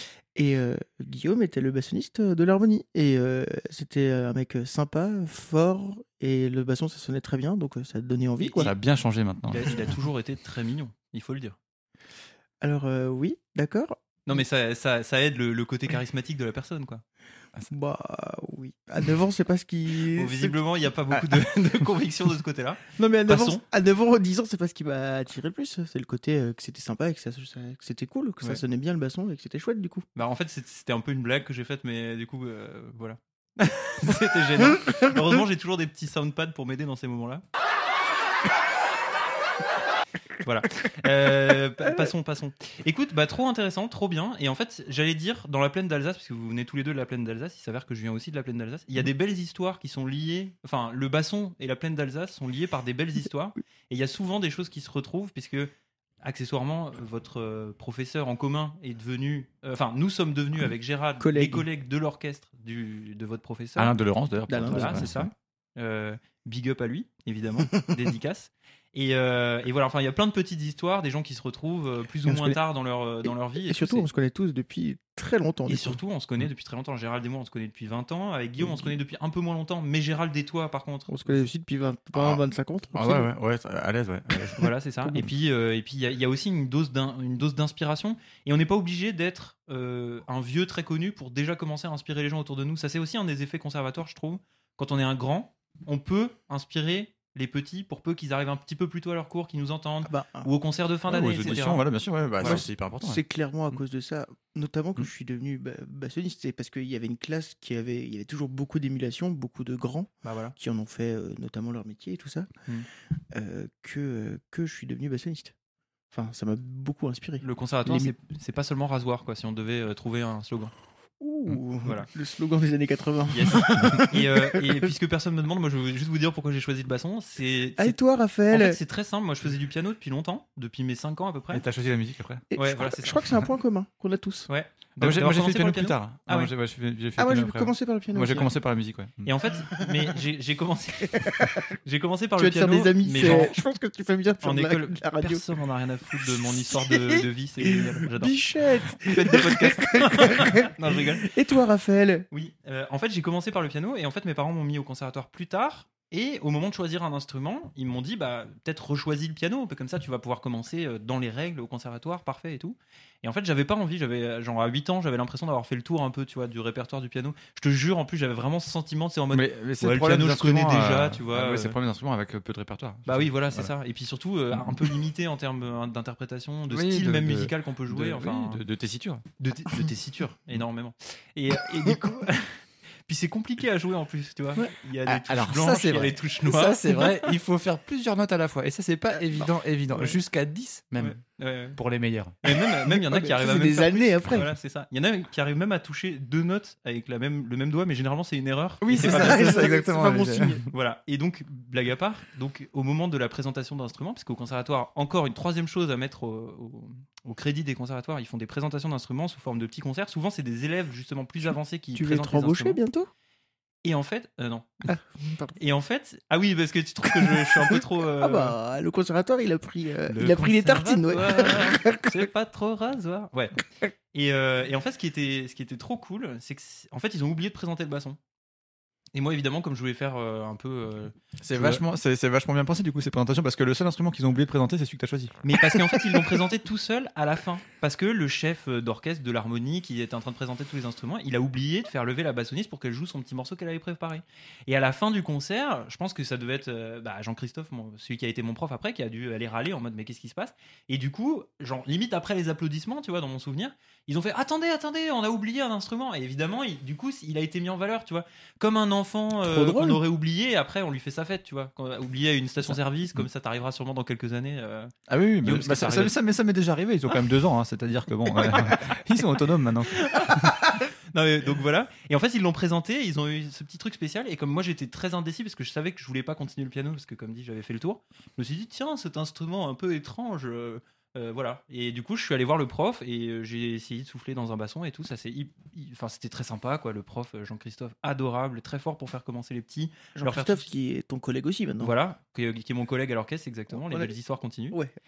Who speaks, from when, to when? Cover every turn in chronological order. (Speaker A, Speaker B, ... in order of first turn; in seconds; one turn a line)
Speaker A: 0.3-8.7
Speaker B: 8.4-8.7
Speaker C: 8.6-9.9
Speaker B: 9.5-11.6
Speaker A: 12.6-14.0
Speaker B: 14.3-17.0
Speaker A: 17.7-20.6
Speaker B: 20.1-23.6
Speaker A: 22.9-30.1
Speaker B: 30.1-37.4
Speaker B: 40.4-63.9
Speaker A: 61.2-61.6
Speaker C: 63.8-65.3
Speaker A: 64.5-65.3
Speaker B: 64.6-74.1
Speaker A: 72.2-72.6
Speaker A: 73.2-76.0
Speaker B: 75.7-81.5
Speaker A: 81.1-83.3
Speaker C: 82.1-82.4
Speaker C: 82.9-84.7
Speaker B: 84.5-101.8
Speaker A: 100.0-100.5
Speaker C: 101.1-103.2
Speaker A: 102.4-112.5
Speaker B: 110.2-110.5
Speaker A: 113.3-115.5
Speaker A: 116.1-118.1
Speaker B: 117.4-120.7
Speaker A: 121.2-124.9
Speaker B: 121.8-122.1
Speaker B: 123.3-128.0
Speaker A: 127.8-128.8
Speaker B: 128.5-131.6
Speaker C: 131.5-132.5
Speaker A: 132.5-134.5
Speaker B: 132.6-133.3
Speaker B: 134.5-136.5
Speaker C: 135.0-139.3
Speaker A: 137.2-138.5
Speaker B: 139.2-143.6
Speaker A: 141.2-141.6
Speaker A: 142.4-145.4
Speaker B: 144.4-148.4
Speaker A: 146.2-152.3
Speaker B: 149.1-151.3
Speaker B: 152.3-171.8
Speaker C: 169.3-173.7
Speaker B: 173.1-178.6
Speaker C: 176.7-179.2
Speaker B: 179.4-186.8
Speaker C: 185.1-191.2
Speaker B: 191.0-191.8
Speaker C: 191.8-192.3
Speaker B: 192.4-199.7
Speaker A: 192.5-194.5
Speaker C: 198.8-200.6
Speaker A: 199.0-200.7
Speaker B: 200.6-212.8
Speaker A: 211.9-213.1
Speaker B: 213.8-215.0
Speaker A: 214.9-215.6
Speaker B: 215.6-218.6
Speaker A: 217.1-222.3
Speaker C: 220.1-221.2
Speaker B: 220.9-228.2
Speaker B: 229.1-231.8
Speaker C: 231.4-236.1
Speaker B: 235.4-266.1
Speaker A: 259.4-260.0
Speaker C: 265.1-270.6
Speaker B: 268.4-268.7
Speaker B: 269.9-270.5
Speaker B: 271.1-290.7
Speaker A: 290.1-291.9
Speaker B: 291.8-294.8
Speaker A: 293.7-294.1